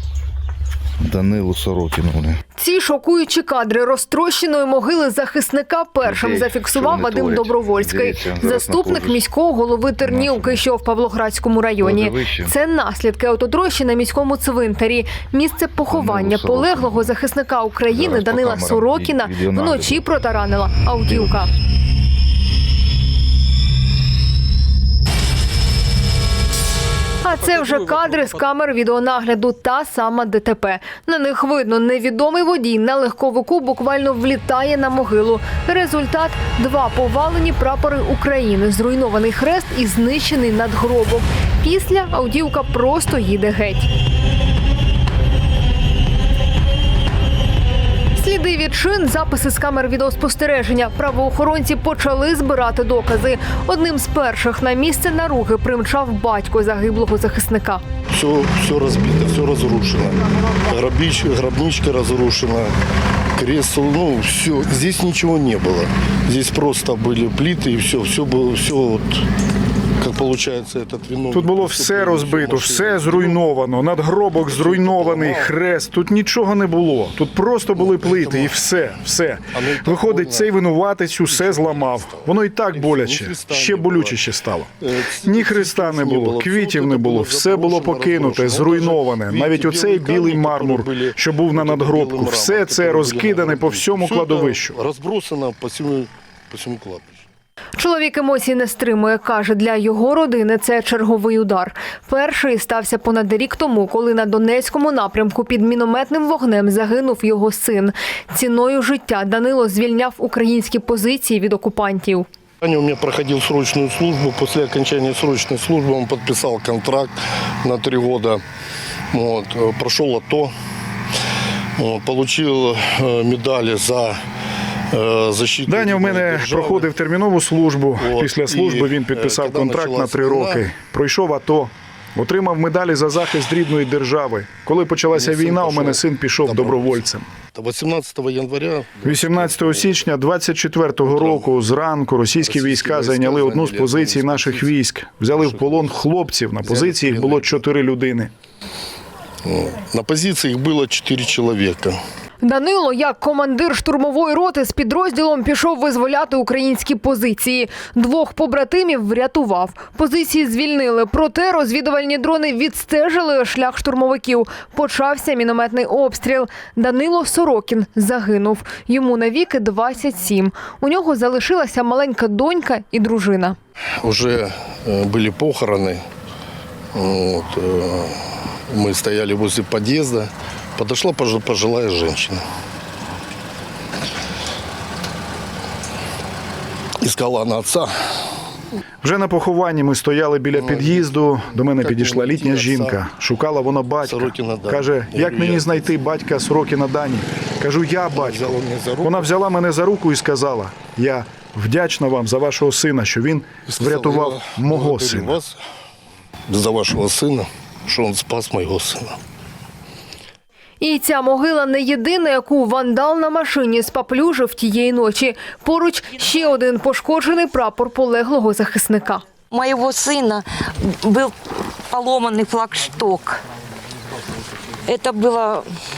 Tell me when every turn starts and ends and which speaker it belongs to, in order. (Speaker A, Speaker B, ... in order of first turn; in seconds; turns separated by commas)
Speaker A: 1.0-2.4, Speaker B: 2.6-21.5, Speaker A: 6.0-9.2, Speaker A: 10.0-10.6, Speaker A: 11.8-12.5, Speaker A: 15.9-17.1, Speaker A: 17.9-20.1, Speaker A: 21.1-21.4, Speaker B: 27.2-43.9, Speaker B: 48.2-57.8, Speaker C: 58.1-62.7, Speaker C: 63.4-69.2, Speaker C: 70.0-73.4, Speaker D: 71.3-84.7, Speaker C: 74.3-75.5, Speaker C: 77.8-78.6, Speaker C: 79.5-80.5, Speaker C: 81.2-84.2, Speaker C: 84.8-97.2, Speaker D: 85.2-94.7, Speaker B: 97.8-112.2, Speaker C: 112.6-118.4, Speaker C: 119.1-120.5, Speaker C: 121.8-124.2, Speaker C: 124.9-126.9, Speaker D: 125.7-137.2, Speaker C: 128.0-130.7, Speaker C: 135.1-140.1, Speaker D: 139.0-148.3, Speaker C: 141.0-141.5, Speaker C: 142.4-144.8, Speaker C: 145.3-146.0, Speaker C: 146.6-147.6, Speaker C: 149.4-152.0, Speaker B: 152.4-173.6, Speaker C: 174.0-176.0, Speaker C: 176.9-182.4, Speaker C: 187.0-187.9, Speaker D: 189.0-205.4, Speaker C: 190.5-193.0, Speaker C: 194.0-195.9, Speaker C: 198.1-199.3, Speaker C: 203.7-205.6, Speaker C: 206.5-209.2, Speaker B: 210.8-219.2, Speaker E: 219.5-221.3, Speaker E: 221.9-223.4, Speaker E: 224.9-225.6